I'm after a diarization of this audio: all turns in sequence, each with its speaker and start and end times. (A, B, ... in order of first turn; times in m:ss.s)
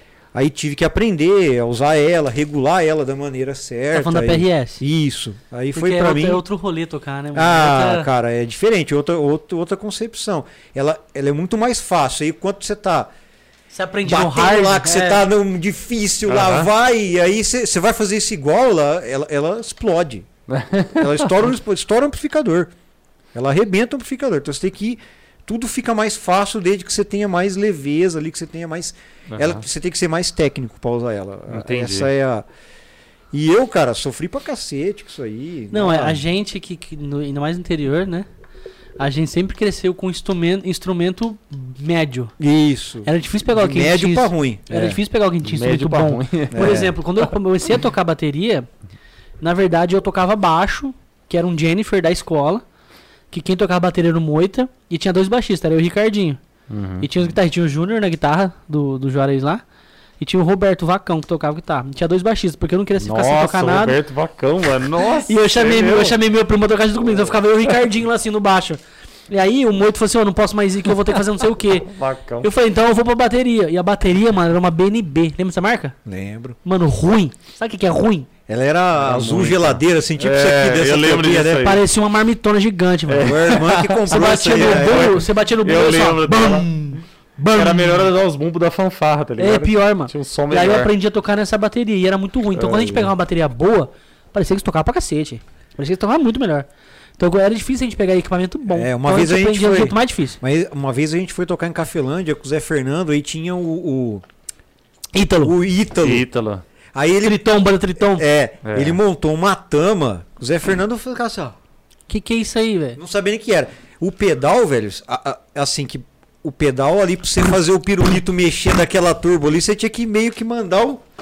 0:00.3-0:06.4 A
0:03.9-0:04.8 B
0:05.7-0:08.1 B
0:07.3-0:13.1 A
0:13.7-0:15.2 B
0:14.0-0:20.3 A
0:16.3-0:16.7 C
0:20.5-0:21.3 C
0:20.9-0:22.7 A
0:23.3-0:32.4 A
0:29.3-0:29.6 C
0:31.5-0:32.1 C
0:33.3-0:36.2 A
0:35.7-0:38.3 B
0:39.0-0:42.3 B
0:42.4-0:45.0 A
0:43.0-0:48.7 B
0:45.4-0:47.2 C
0:46.5-0:46.9 A
0:49.4-0:52.6 B
0:53.3-0:56.4 B
0:56.7-0:57.3 C
0:57.0-0:59.6 B
1:00.2-1:04.0 B
1:03.0-1:06.2 C
1:05.2-1:15.9 B
1:07.1-1:07.7 C
1:11.9-1:12.5 C
1:16.0-1:16.6 A
1:16.6-1:18.3 B
1:18.5-1:21.7 A
1:19.0-1:21.8 C
1:21.6-1:28.1 B
1:23.1-1:26.7 C
1:23.2-1:25.2 A
1:27.5-1:30.9 C
1:29.4-1:40.4 B
1:32.6-1:33.1 C
1:38.7-1:44.2 A
1:45.1-1:45.5 B
1:45.4-1:46.2 A
1:46.0-1:46.6 C
1:46.9-1:47.4 A
1:47.2-1:48.2 B
1:48.1-1:51.6 A
1:48.6-1:49.0 C
1:52.1-1:53.0 B
1:53.0-2:01.0 A